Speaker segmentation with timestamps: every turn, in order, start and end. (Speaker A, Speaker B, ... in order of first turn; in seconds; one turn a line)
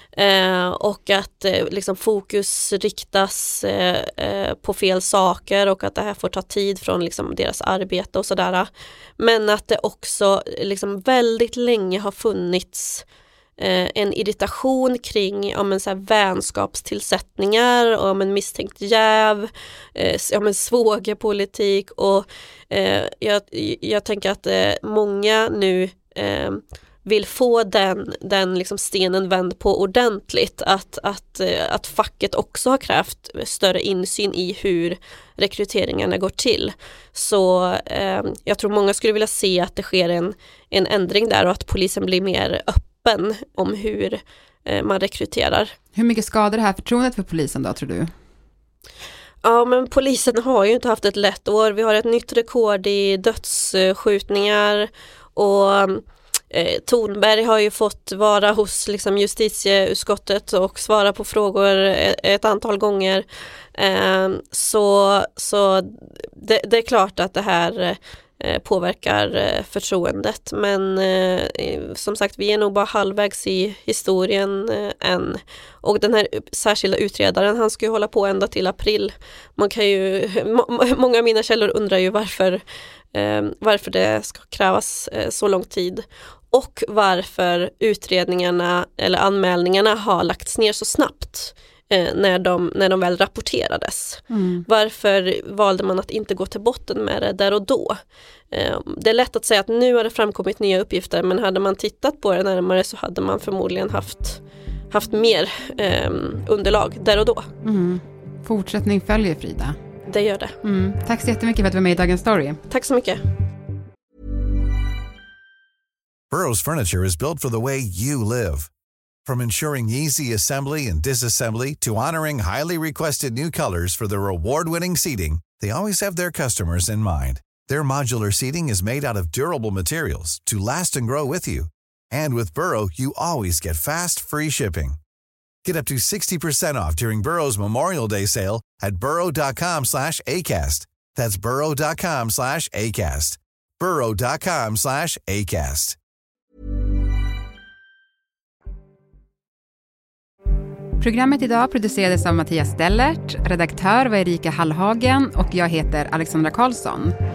Speaker A: 0.1-13.0
Speaker A: 13.6-45.7
Speaker B: 45.9-48.1
Speaker A: 49.4-63.2
Speaker A: 63.8-82.6
Speaker A: 83.1-98.0
Speaker B: 94.3-94.6
Speaker A: 98.5-107.5
Speaker B: 107.6-109.8
Speaker A: 110.1-110.5
Speaker B: 110.6-112.6
Speaker A: 112.7-113.2
Speaker C: 116.3-118.7
Speaker C: 119.2-135.0
Speaker C: 135.6-145.9
Speaker B: 151.0-157.1